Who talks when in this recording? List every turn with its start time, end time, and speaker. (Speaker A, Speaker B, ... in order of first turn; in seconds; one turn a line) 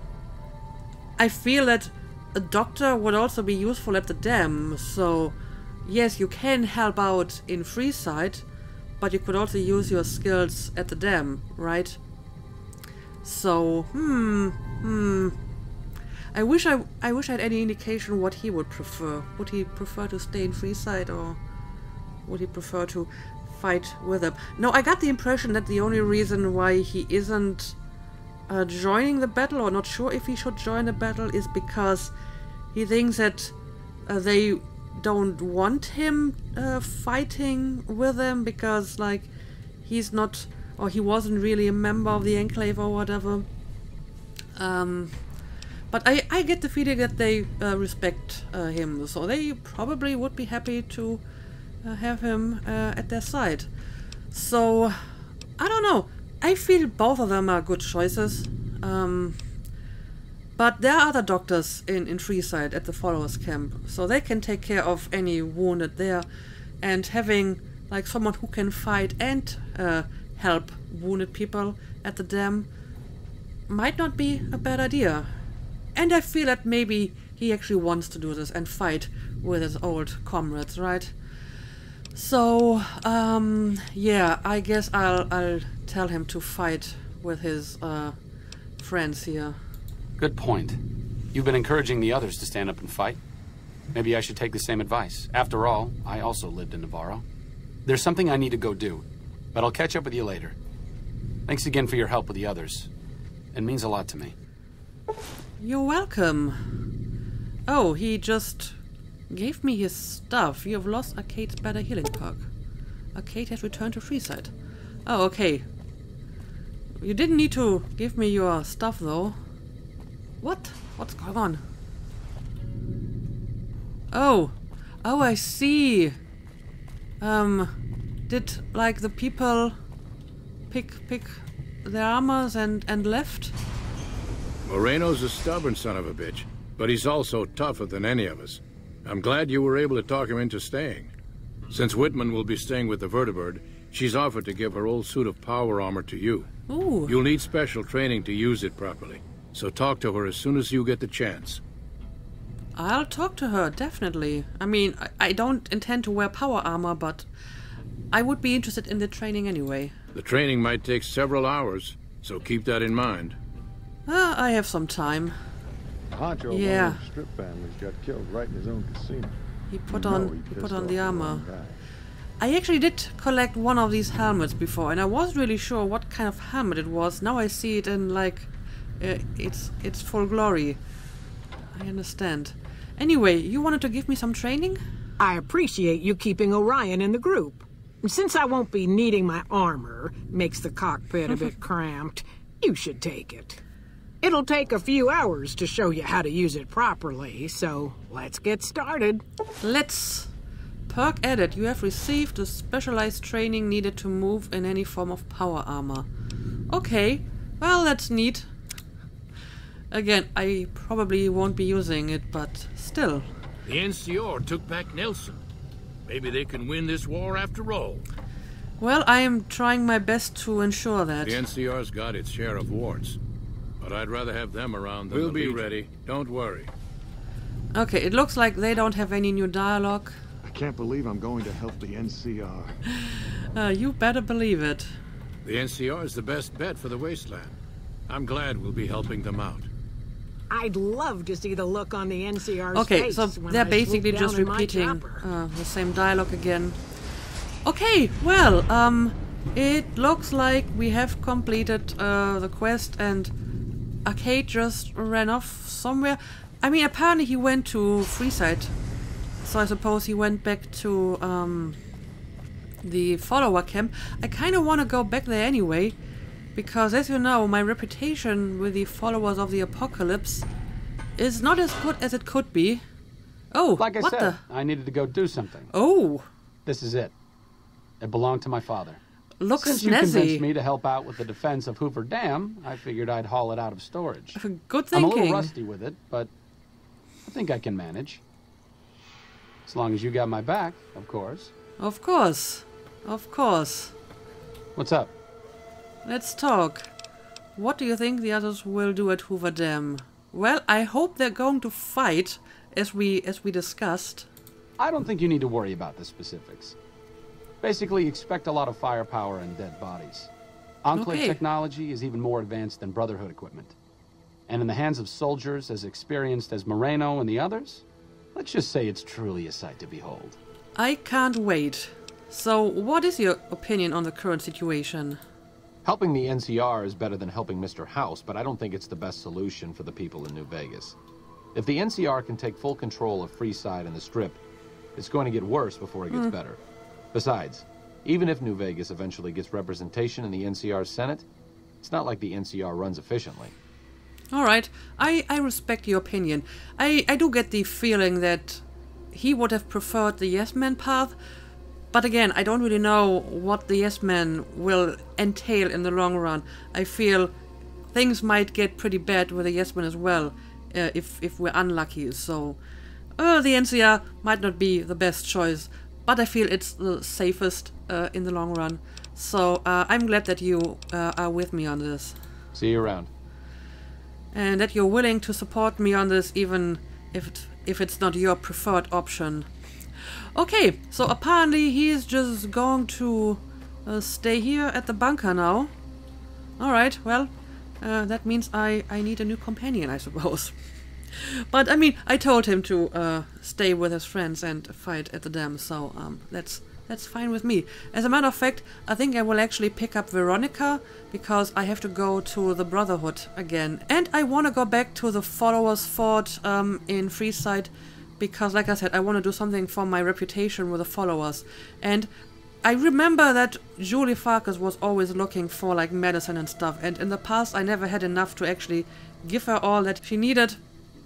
Speaker A: 1.2-8.4
Speaker A: 9.0-12.0
Speaker A: 13.2-15.4
Speaker A: 16.3-21.4
Speaker A: 22.2-27.8
Speaker A: 28.5-32.1
Speaker A: 32.7-33.5
Speaker A: 34.1-39.3
Speaker A: 39.8-43.5
Speaker A: 44.5-45.2
Speaker A: 45.9-51.2
Speaker A: 51.8-53.7
Speaker A: 54.3-55.0
Speaker A: 55.6-59.4
Speaker A: 60.6-66.2
Speaker A: 66.8-72.7
Speaker A: 73.7-75.3
Speaker A: 75.9-81.1
Speaker A: 82.1-88.2
Speaker A: 88.8-89.6
Speaker B: 90.2-90.8
Speaker B: 91.3-93.2
Speaker B: 93.9-97.2
Speaker B: 97.8-100.5
Speaker B: 101.5-102.9
Speaker B: 103.5-104.3
Speaker A: 105.6-106.6
Speaker A: 107.7-108.8
Speaker A: 109.3-112.5
Speaker A: 113.1-114.5
Speaker A: 115.0-115.7
Speaker A: 117.0-119.4
Speaker A: 120.4-121.6
Speaker A: 124.1-126.2
Speaker A: 127.2-127.7
Speaker A: 128.3-129.8
Speaker A: 130.7-133.5
Speaker C: 134.6-141.1
Speaker C: 141.7-146.5
Speaker A: 146.7-147.2
Speaker C: 147.1-151.6
Speaker A: 152.8-157.3
Speaker A: 158.1-159.9
Speaker C: 160.1-163.4
Speaker A: 164.1-165.3
Speaker D: 166.1-169.4
Speaker A: 166.5-167.0
Speaker A: 169.7-171.4
Speaker D: 169.9-171.7
Speaker A: 172.4-180.8
Speaker A: 181.7-184.8
Speaker E: 185.2-193.6
Speaker E: 194.2-199.2
Speaker A: 199.6-200.3
Speaker A: 200.9-206.1
Speaker A: 206.7-208.5
Speaker A: 209.9-213.3
Speaker C: 213.6-215.4
Speaker C: 216.1-218.0
Speaker A: 218.8-221.4
Speaker C: 221.2-223.2
Speaker C: 223.8-226.7
Speaker B: 225.1-225.6
Speaker A: 227.7-230.2
Speaker D: 230.4-232.7
Speaker A: 232.9-234.9
Speaker C: 235.4-237.5
Speaker C: 238.1-239.7
Speaker E: 240.5-245.2
Speaker A: 242.7-246.8
Speaker A: 247.6-253.3
Speaker A: 254.0-258.7
Speaker A: 259.4-261.8
Speaker A: 262.8-265.9
Speaker A: 266.5-270.5
Speaker A: 271.2-272.8
Speaker A: 273.5-274.4
Speaker B: 273.8-275.7
Speaker A: 275.7-276.2
Speaker B: 276.6-277.1
Speaker B: 278.0-279.0
Speaker A: 279.4-280.4
Speaker B: 279.6-284.4
Speaker A: 284.4-285.5
Speaker B: 284.9-286.3
Speaker B: 287.2-288.2
Speaker B: 289.6-291.5
Speaker A: 291.8-293.9
Speaker B: 294.8-295.1
Speaker A: 296.0-296.9
Speaker A: 297.6-304.3
Speaker B: 304.8-306.7
Speaker B: 307.6-310.3
Speaker B: 310.8-313.7
Speaker A: 310.9-311.4
Speaker B: 314.5-317.8
Speaker B: 318.3-320.4
Speaker A: 320.8-325.2
Speaker F: 325.8-331.0
Speaker F: 331.5-334.4
Speaker F: 334.9-336.6
Speaker F: 337.1-341.2
Speaker F: 341.8-343.5
Speaker A: 344.3-351.1
Speaker A: 351.9-357.3
Speaker A: 357.9-362.6
Speaker A: 363.2-372.2
Speaker B: 372.6-373.1
Speaker F: 372.6-373.1
Speaker A: 374.3-379.5
Speaker A: 380.3-385.7
Speaker A: 386.6-390.5
Speaker A: 391.1-412.1
Speaker A: 412.6-420.6